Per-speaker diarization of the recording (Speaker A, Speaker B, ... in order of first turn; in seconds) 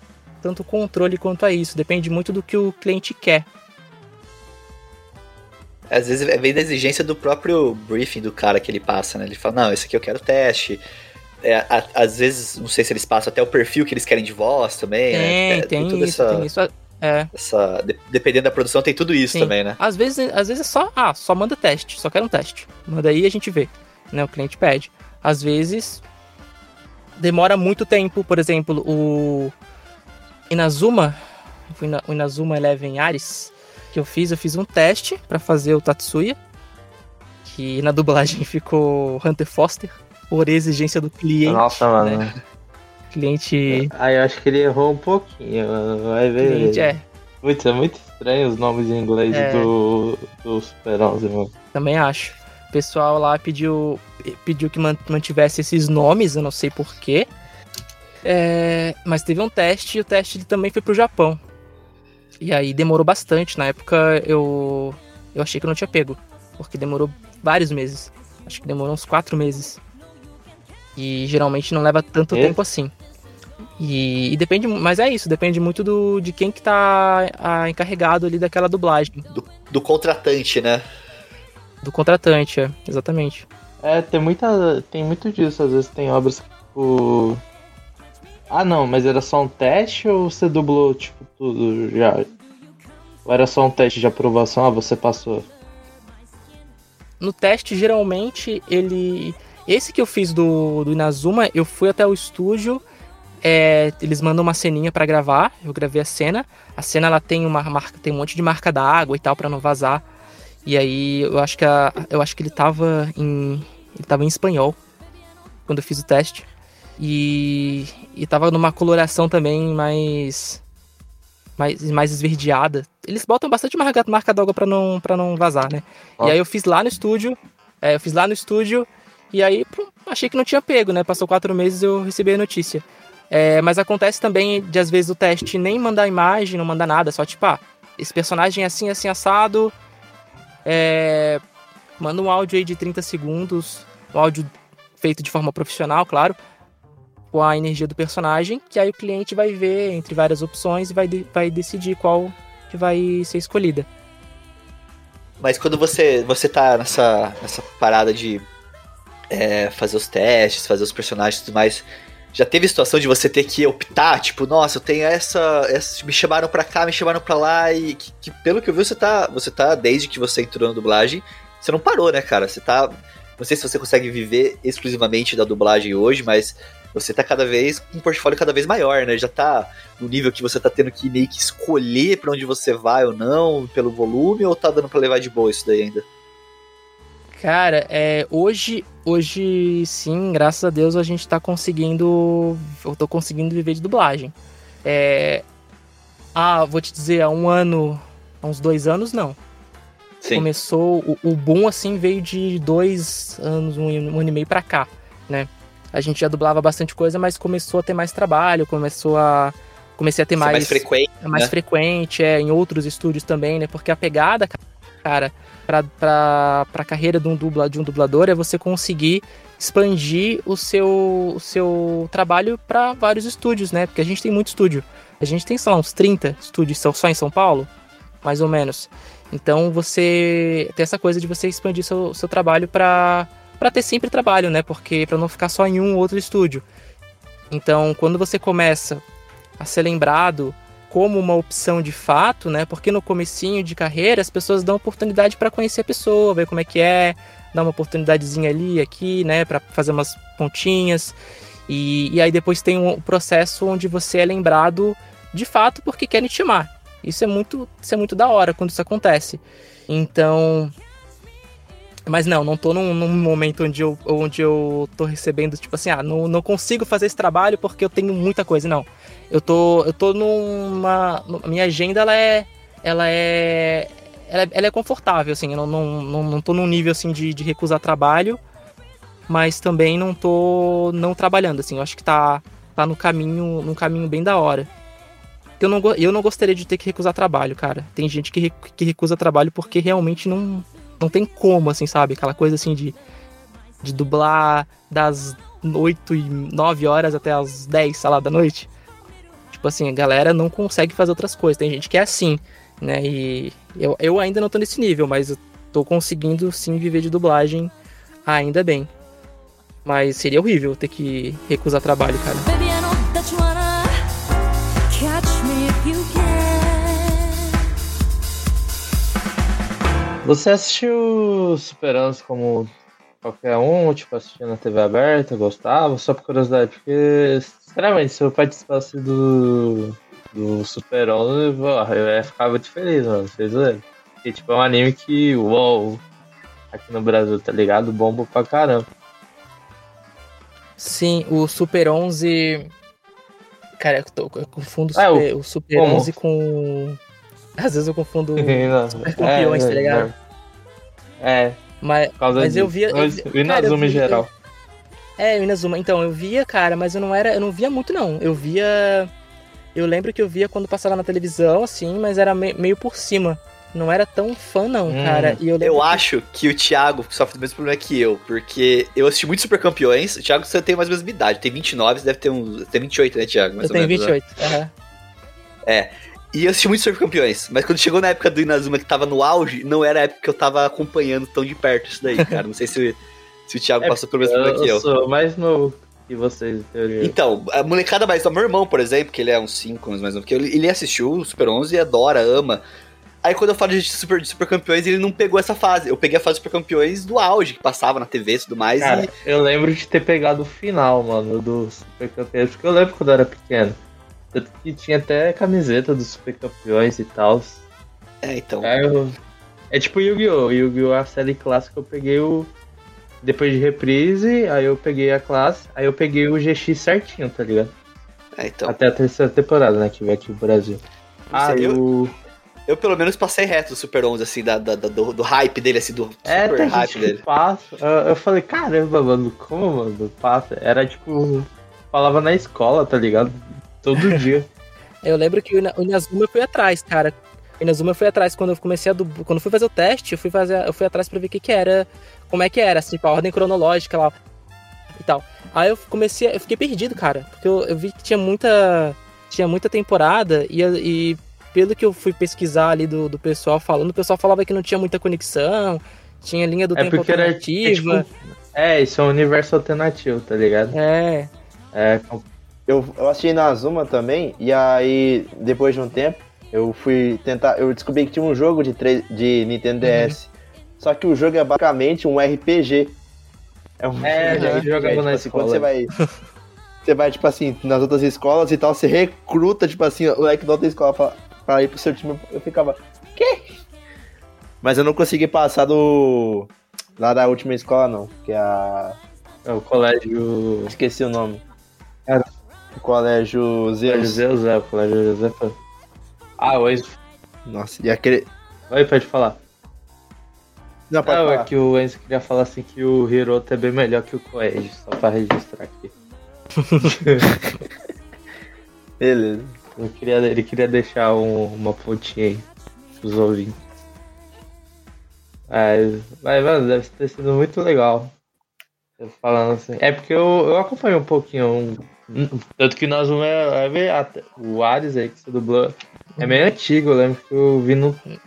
Speaker A: 0.4-3.5, 15.1-17.3, 19.3-26.0, 27.2-29.5, 30.5-31.2, 31.7-36.4, 37.5-42.2, 43.1-43.9, 46.4-47.0, 49.3-49.7, 51.7-57.3, 58.2-61.4, 62.4-69.8, 71.0-72.9, 73.8-79.2, 81.8-83.5, 97.2-102.8, 103.4-110.0, 110.6-114.8, 115.7-120.6, 121.6-139.7, 140.7-141.4, 142.0-146.4, 147.3-153.9, 187.4-194.3, 194.8-195.4, 196.3-199.4, 200.3-227.7, 228.2-236.6, 237.5-239.0, 239.6-251.1, 251.7-260.7, 262.1-278.4, 279.3-284.7, 285.6-292.9, 293.8-298.7, 299.5-307.7, 308.3-308.9, 309.8-312.4, 340.8-342.7, 343.8-347.0, 347.6-350.1, 351.8-354.2, 355.2-359.1, 359.7-366.0, 373.6-374.7, 435.0-444.1, 445.0-458.1, 460.7-461.3, 469.8-470.2, 474.3-474.6, 506.6-506.9
Speaker B: 5.9-10.8, 11.4-16.5, 17.3-19.8, 79.3-80.8, 155.4-158.4, 159.3-186.1, 200.2-200.5, 210.4-211.5, 365.6-374.2, 375.7-384.9, 387.0-392.6, 393.2-399.1, 408.2-408.7, 418.4-418.8, 421.3-421.8, 422.7-427.2
Speaker C: 41.5-42.3, 43.7-46.9, 47.4-51.5, 72.3-72.6, 83.8-87.4, 88.5-92.3, 93.2-95.5, 320.2-322.7, 323.2-336.0, 336.7-338.9, 344.9-346.1, 348.4-350.1, 351.2-351.6, 352.2-354.3, 364.9-365.4, 383.8-387.1, 398.8-403.8, 404.3-407.6, 408.6-409.2, 409.7-412.5, 413.2-417.7, 418.7-420.8, 421.3-422.1, 426.3-434.5, 456.8-460.8, 461.7-462.2, 474.0-475.7, 489.4-490.7, 493.9-495.6, 496.4-496.9, 498.7-499.4, 501.1-505.9, 506.8-507.3, 509.8-512.4, 513.0-513.5, 515.5-518.1, 519.0-528.0
Speaker D: 312.4-314.0, 314.9-317.4
Speaker E: 462.7-472.9, 473.8-475.9, 476.8-483.5, 484.6-489.0, 490.7-491.4, 492.7-494.2, 497.4-498.3, 500.9-501.5, 509.0-509.5